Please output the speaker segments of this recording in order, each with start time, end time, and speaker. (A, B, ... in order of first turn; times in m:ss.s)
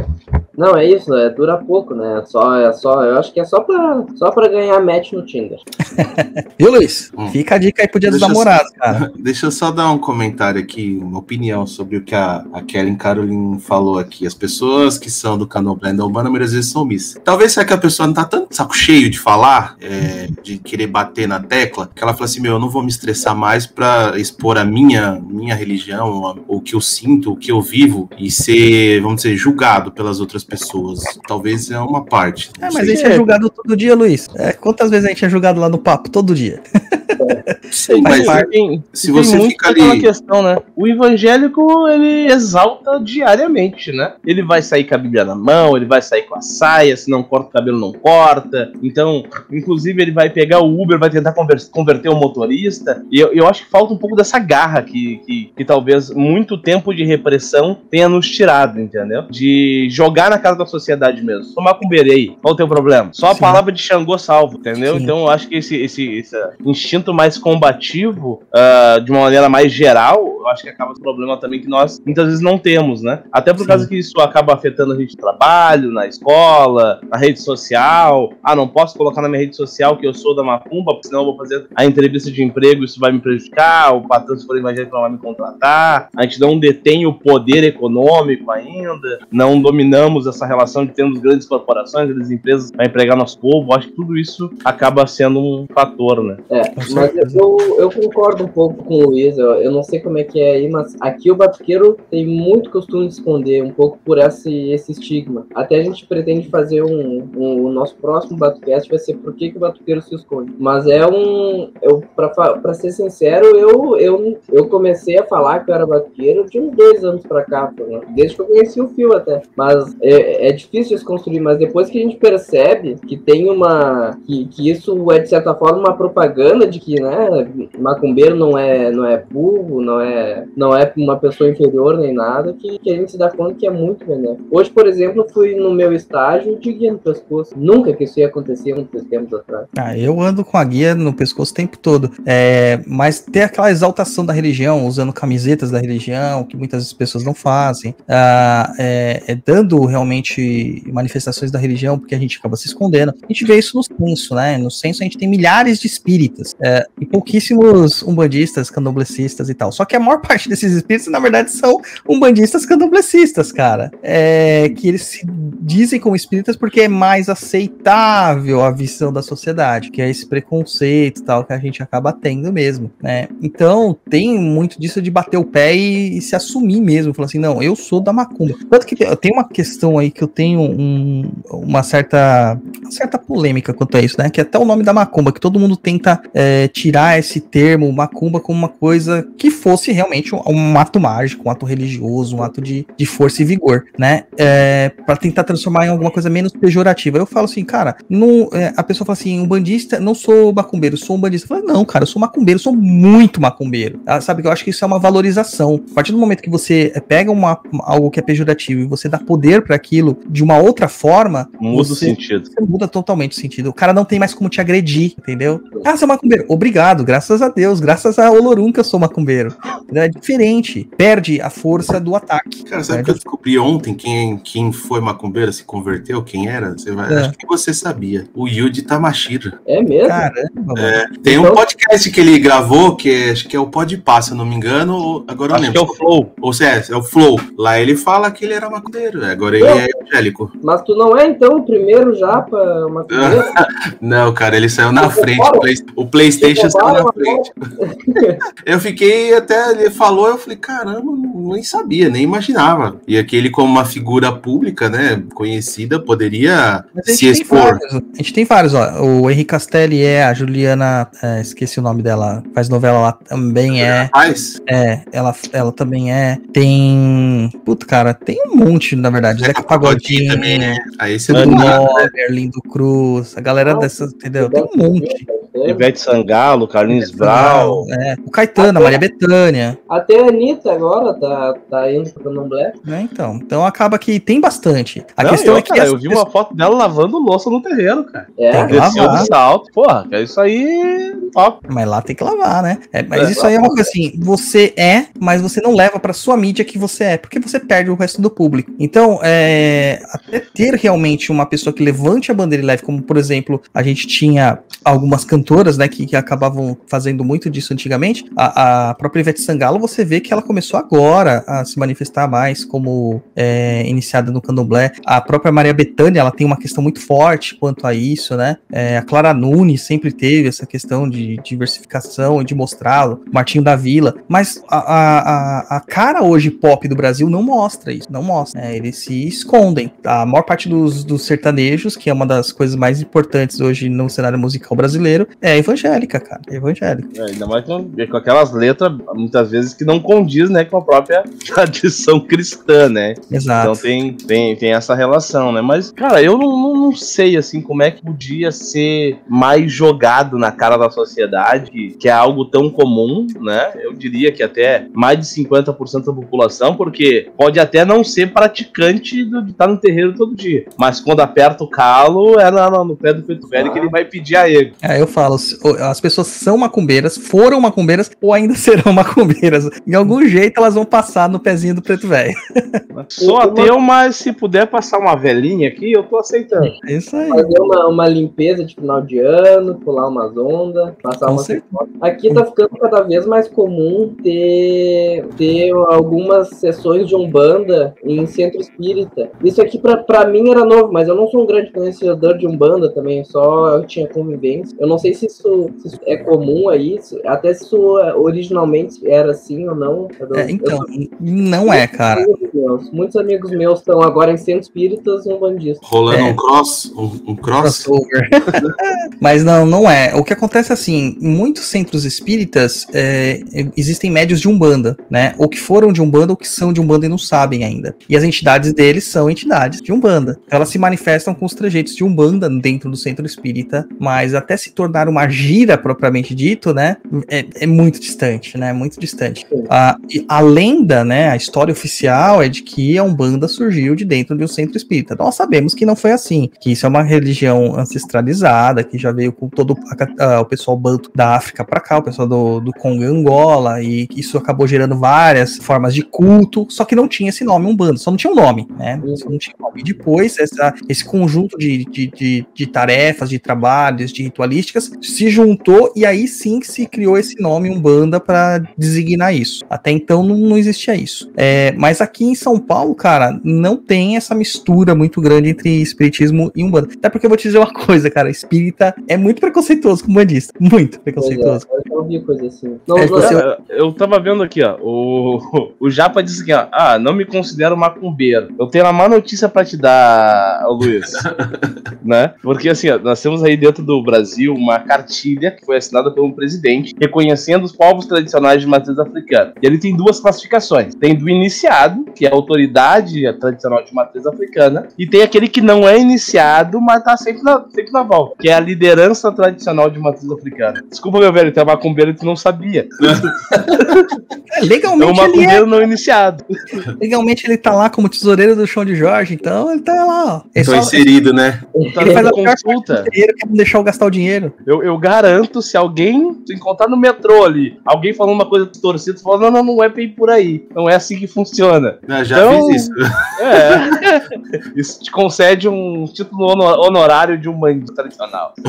0:00.6-0:05.6 A
0:06.0-0:09.0 B
0:08.1-0:33.3 C
0:32.6-0:38.5 B
0:32.9-0:33.2 D
0:37.7-0:40.1 C
0:38.0-1:36.4 D
1:03.3-1:03.6 B
1:04.8-1:05.1 B
1:13.6-1:13.9 B
1:36.5-2:19.7 A
1:36.8-1:37.4 B
2:19.8-3:43.2 B
3:31.6-3:32.5 D
3:42.7-3:49.5 C
3:47.1-3:47.3 B
3:49.7-3:50.2 A
3:50.0-3:51.0 B
3:50.8-4:00.5 C
3:51.2-3:51.6 A
3:55.5-3:56.3 D
3:59.6-3:59.8 A
4:00.6-4:03.6 A
4:03.1-4:07.6 C
4:05.0-4:05.7 A
4:06.4-4:08.4 A
4:08.6-4:17.8 C
4:17.0-4:24.1 B
4:23.8-4:24.6 C
4:24.7-4:35.2 B
4:29.4-4:31.8 C
4:31.3-4:32.1 D
4:33.6-4:35.8 A
4:35.7-4:37.9 D
4:36.9-4:39.8 B
4:38.6-4:39.0 A
4:39.9-4:42.8 A
4:42.9-4:46.2 B
4:45.2-4:51.6 D
4:48.4-4:49.4 A
4:48.5-4:49.3 B
4:51.7-5:37.1 B
4:53.2-4:53.9 A
5:37.1-6:04.7 D
5:43.3-5:43.8 B
6:03.5-6:03.9 A
6:04.8-6:12.8 B
6:12.9-6:16.7 D
6:13.2-6:13.8 A
6:16.8-6:17.6 B
6:17.3-6:40.8 A
6:21.2-6:21.6 B
6:40.3-6:42.3 B
6:41.7-6:45.8 A
6:45.8-6:47.9 C
6:46.1-6:46.4 B
6:47.6-6:48.7 B
6:49.2-7:51.6 B
7:29.0-7:29.3 A
7:51.2-7:53.4 A
7:52.9-7:53.4 B
7:53.2-8:01.3 D
8:01.0-8:01.7 C
8:02.0-8:24.1 D
8:23.0-8:23.8 C
8:24.5-8:25.6 B
8:25.0-8:26.4 D
8:27.0-8:31.1 B
8:30.6-8:31.6 C
8:31.9-8:32.2 A
8:31.9-8:33.1 D
8:32.1-8:34.5 B
8:34.7-8:48.6 D
8:42.1-8:43.0 C